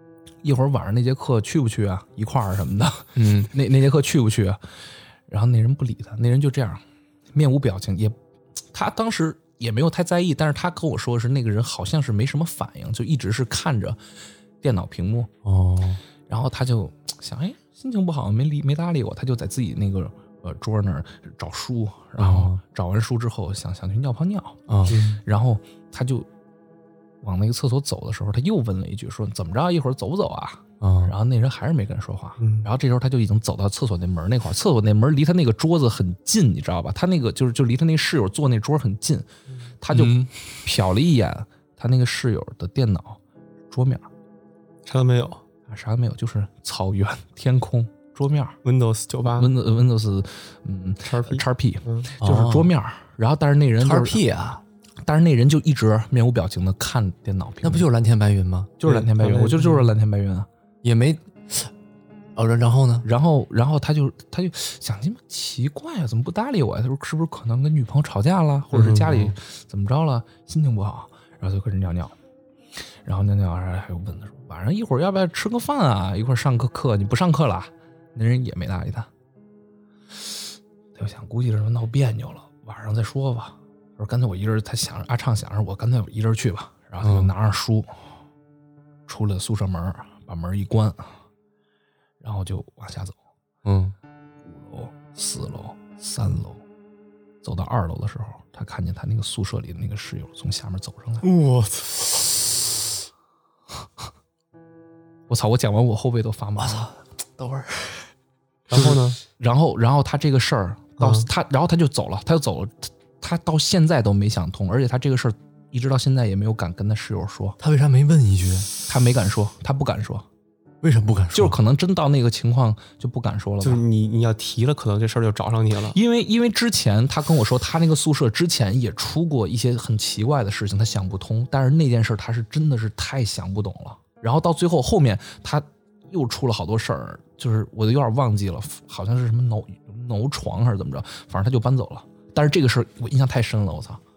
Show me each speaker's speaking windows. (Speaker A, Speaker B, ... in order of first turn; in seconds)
Speaker A: 0.4-4.6, 5.3-6.8, 7.3-8.2, 8.7-14.0, 14.6-15.3, 16.3-24.6, 25.2-26.3, 27.2-39.3, 39.8-43.2, 43.7-44.1, 45.7-48.6, 49.4-54.2, 55.0-57.9, 58.8-60.5, 63.0-72.2, 73.0-79.1, 81.0-87.9, 89.1-91.2, 92.2-93.2, 94.5-96.6, 97.4-101.3, 105.3-106.9, 108.7-117.6, 118.9-120.3, 121.3-123.8, 125.9-144.0
Speaker B: 3.2-3.5, 15.4-16.0, 22.2-22.6, 24.7-25.0, 30.8-31.1, 39.9-40.3, 52.2-52.7, 53.8-54.6, 57.6-58.7, 60.8-61.7, 62.4-63.1, 87.0-87.3, 93.6-94.0, 106.6-108.1, 117.6-118.7, 120.8-121.6
Speaker C: 24.9-25.2, 32.4-32.7, 44.9-45.4, 48.6-49.5, 51.0-52.1, 58.9-59.9, 68.7-69.3, 101.2-102.2, 108.7-109.2, 111.0-111.3, 123.6-126.0